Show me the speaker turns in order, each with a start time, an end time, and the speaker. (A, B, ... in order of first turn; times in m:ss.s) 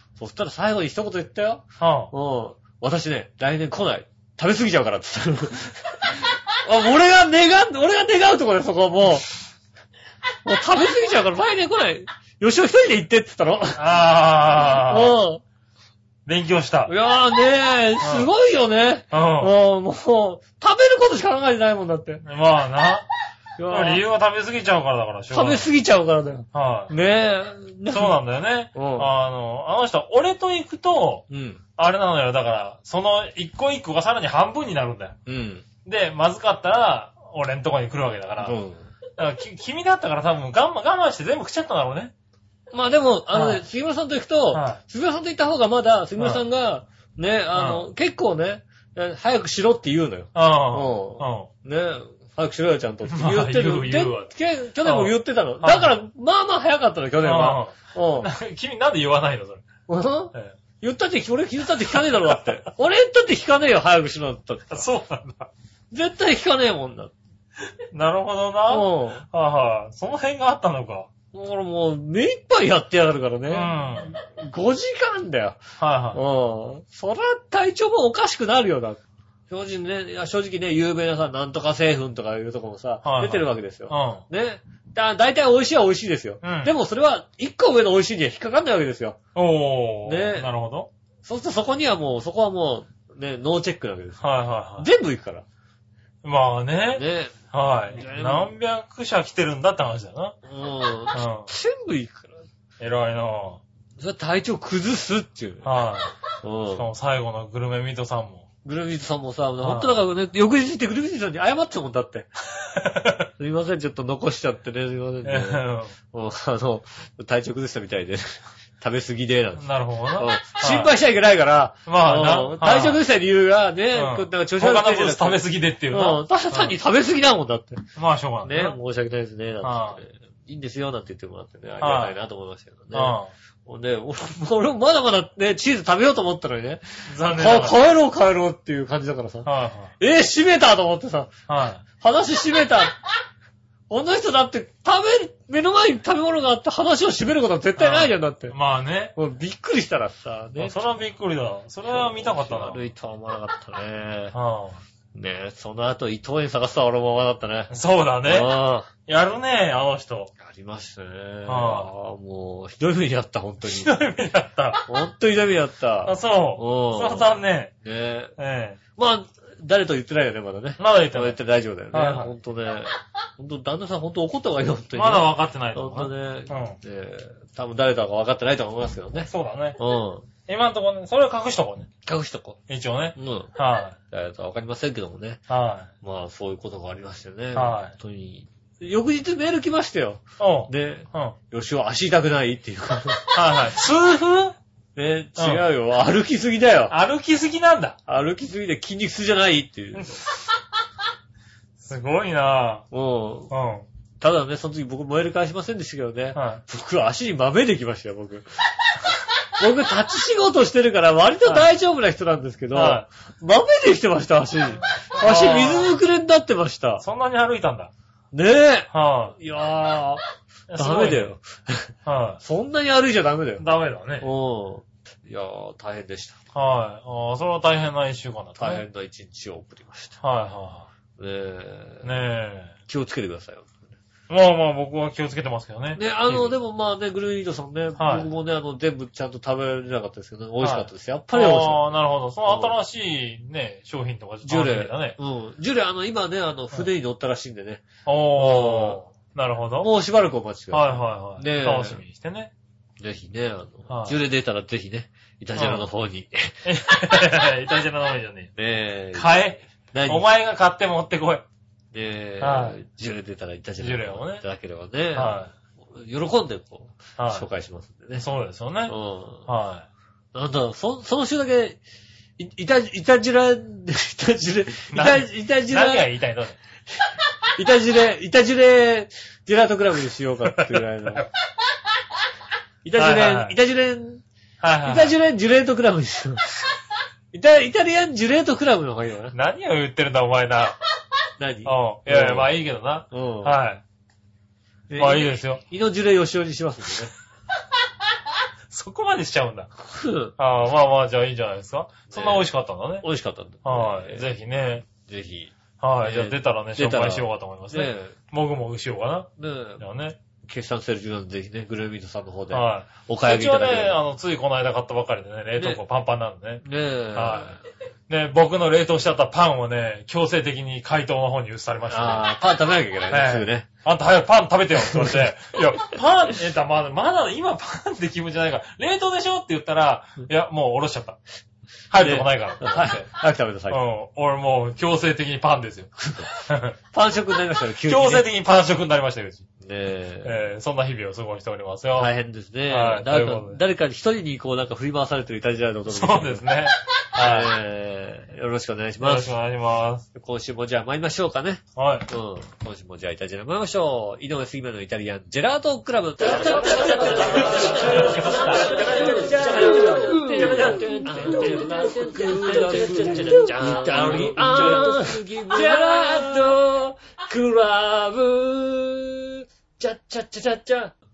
0:00.2-0:09.4 A
0:01.8-0:02.1 B
0:10.4-0:13.8 A
0:13.7-0:15.2 B
0:14.6-0:15.4 A
0:16.2-0:16.9 B
0:16.9-0:22.2 A
0:18.0-0:18.3 B
0:19.1-0:19.5 B
0:22.2-0:23.0 B
0:23.6-0:24.0 A
0:23.7-0:25.7 B
0:25.3-0:28.2 A
0:26.5-0:26.9 B
0:27.9-0:31.2 B
0:28.7-0:29.1 A
0:31.3-0:31.6 A
0:31.8-0:35.2 B
0:35.3-0:35.6 A
0:35.8-0:38.6 B
0:38.4-0:38.8 A
0:39.2-0:42.1 B
0:42.7-0:58.3 A
0:43.3-0:43.6 B
0:44.5-0:44.8 B
0:47.5-0:47.9 B
0:50.3-0:51.5 B
0:53.1-0:54.3 B
0:54.8-0:55.9 B
0:57.2-0:59.6 B
0:59.9-1:04.9 A
1:02.1-1:02.4 B
1:04.7-1:05.5 B
1:05.9-1:07.1 A
1:07.9-1:11.1 B
1:08.7-1:09.2 A
1:11.3-1:15.6 A
1:13.5-1:14.1 B
1:15.8-1:16.2 B
1:16.1-1:29.2 A
1:23.0-1:24.2 B
1:26.4-1:26.7 B
1:29.3-1:30.9 B
1:30.0-1:30.5 A
1:31.2-1:34.2 A
1:34.2-1:34.9 B
1:34.8-1:35.4 A
1:36.2-1:40.4 B
1:36.9-1:37.4 A
1:37.9-1:38.5 A
1:40.4-1:42.4 A
1:41.1-1:41.5 B
1:42.8-1:43.6 B
1:44.0-1:45.7 A
1:45.6-1:46.1 B
1:46.4-1:46.9 A
1:46.7-1:48.4 B
1:48.6-1:52.3 A
1:49.6-1:50.0 B
1:52.7-1:53.3 B
1:53.4-2:07.8 A
1:55.2-1:55.9 B
1:59.6-2:00.9 B
2:01.8-2:03.0 B
2:03.9-2:06.8 B
2:08.0-2:08.8 B
2:08.4-2:19.5 A
2:09.6-2:10.0 B
2:11.8-2:12.2 B
2:12.9-2:13.3 B
2:17.1-2:17.8 B
2:19.4-2:19.9 B
2:20.0-2:21.3 A
2:21.5-2:21.8 B
2:22.0-2:23.0 A
2:23.9-2:28.5 A
2:27.8-2:29.1 B
2:29.2-2:30.8 A
2:30.6-2:32.8 B
2:31.9-2:34.3 A
2:34.3-2:34.8 B
2:35.1-2:37.7 A
2:37.7-2:38.5 B
2:38.2-2:38.9 A
2:39.1-2:40.3 B
2:40.4-2:43.9 A
2:41.4-2:41.9 B
2:43.6-2:44.8 B
2:44.9-2:48.3 A
2:46.0-2:47.7 B
2:48.4-2:48.8 B
2:49.0-3:00.3 A
2:50.8-2:51.4 B
2:51.9-2:52.3 B
2:54.9-2:56.8 B
2:59.3-2:59.8 B
3:00.5-3:01.9 B
3:02.0-3:02.6 A
3:02.7-3:04.0 B
3:03.2-3:03.5 A
3:04.1-3:05.4 A
3:05.5-3:05.9 B
3:06.0-3:13.3 A
3:07.5-3:07.9 B
3:10.4-3:11.3 B
3:13.3-3:14.6 B
3:15.0-3:16.9 A
3:15.4-3:15.6 B
3:16.9-3:18.0 B
3:18.1-3:20.2 A
3:21.8-3:22.8 B
3:22.9-3:23.5 A
3:23.5-3:23.8 B
3:24.2-3:28.5 A
3:26.3-3:26.6 B
3:29.6-3:37.0 A
3:32.7-3:33.0 B
3:35.2-3:36.0 B
3:37.0-3:37.9 B
3:38.3-3:40.2 A
3:38.9-3:39.3 B
3:40.7-3:41.3 B
3:40.8-3:43.6 A
3:42.0-3:42.4 B
3:43.6-3:44.3 B
3:44.2-3:46.4 A
3:46.5-3:48.8 B
3:48.6-3:50.2 A
3:50.2-3:50.9 B
3:51.2-3:52.2 A
3:52.0-3:52.7 B
3:52.9-3:53.8 A
3:54.3-3:56.5 B
3:56.0-4:01.9 A
3:58.0-3:58.3 B
4:00.6-4:05.2 B
4:02.4-4:02.7 A
4:04.4-4:07.8 A
4:08.0-4:09.9 B
4:08.4-4:09.0 A
4:09.8-4:12.0 A
4:10.7-4:12.5 B
4:13.0-4:16.6 A
4:13.9-4:14.2 B
4:15.6-4:15.9 B
4:16.6-4:18.5 B
4:18.6-4:19.4 A
4:19.1-4:21.4 B
4:19.9-4:20.3 A
4:21.9-4:28.2 A
4:22.4-4:22.8 B
4:23.8-4:24.4 B
4:25.1-4:25.5 B
4:27.2-4:27.5 B
4:28.2-4:28.9 B
4:28.9-4:29.5 A
4:29.5-4:29.8 B
4:30.3-4:31.8 A
4:32.4-4:36.1 A
4:34.9-4:36.6 B
4:37.6-4:41.3 A
4:40.5-4:41.3 B
4:42.8-4:44.2 A
4:42.9-4:43.6 B
4:44.6-4:45.1 B
4:44.8-4:46.6 A
4:47.3-4:49.3 A
4:49.3-4:50.8 B
4:51.4-4:52.5 A
4:51.6-4:53.8 B
4:53.1-4:53.6 A
4:54.9-4:57.1 A
4:55.0-4:55.6 B
4:58.7-4:59.7 B
4:59.8-5:00.3 A
5:00.4-5:03.0 B
5:02.1-5:02.5 A
5:03.0-5:04.3 A
5:03.6-5:04.9 B
5:05.0-5:08.2 A
5:05.8-5:10.2 B
5:09.4-5:09.8 A
5:10.4-5:14.0 A
5:12.5-5:16.6 B
5:16.6-5:17.6 A
5:17.1-5:22.3 B
5:21.9-5:23.7 A
5:23.1-5:31.2 B
5:24.8-5:25.2 A
5:31.9-5:33.1 B
5:32.0-5:33.8 A
5:33.7-5:36.7 B
5:36.0-5:36.4 A
5:36.9-5:38.3 A
5:37.8-5:39.4 B
5:39.6-5:40.4 A
5:40.2-5:42.1 B
5:42.0-5:46.4 A
5:42.7-5:43.6 B
5:45.9-5:47.5 B
5:47.2-5:49.3 A
5:49.0-5:50.0 B
5:50.1-6:10.9 A
5:51.8-5:52.1 B
5:57.5-6:01.6 B
6:02.5-6:06.0 B